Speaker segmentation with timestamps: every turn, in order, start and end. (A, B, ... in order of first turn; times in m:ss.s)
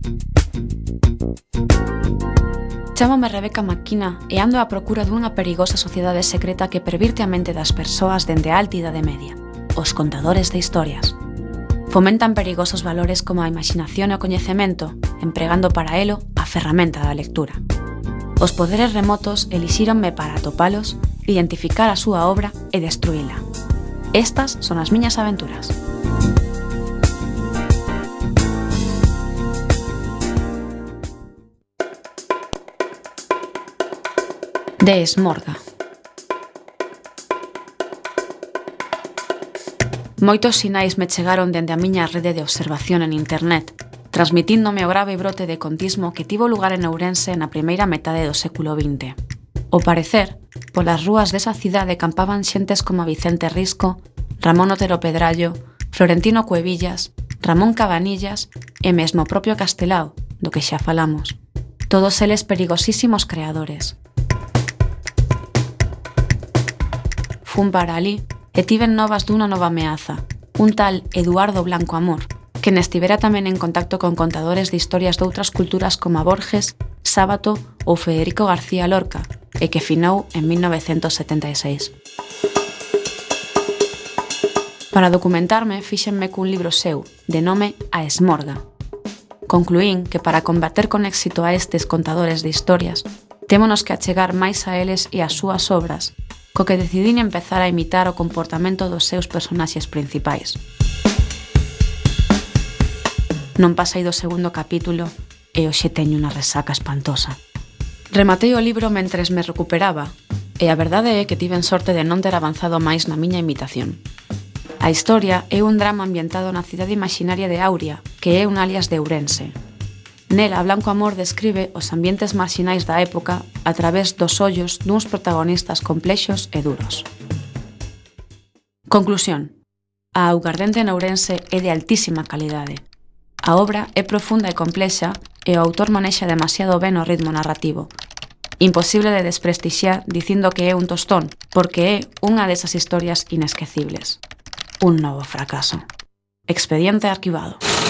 0:03.0-0:11.2 A
0:11.9-0:17.6 A
0:18.4-0:23.4 A
0:24.1-0:25.8 A
0:34.8-0:35.6 A
0:40.2-0:49.2 A
0:49.7-1:01.4 A
1:01.9-1:04.0 A
1:07.4-1:21.9 A
1:24.9-1:28.6 A
1:29.5-1:40.6 A
1:43.6-1:47.4 A
1:48.1-1:54.0 A
1:54.8-1:59.6 A
2:00.3-2:07.1 A
2:08.9-2:09.6 A
2:10.2-2:12.8 A
2:13.4-2:17.9 A
2:18.6-2:24.2 A
2:24.8-2:25.8 A
2:26.5-2:27.6 A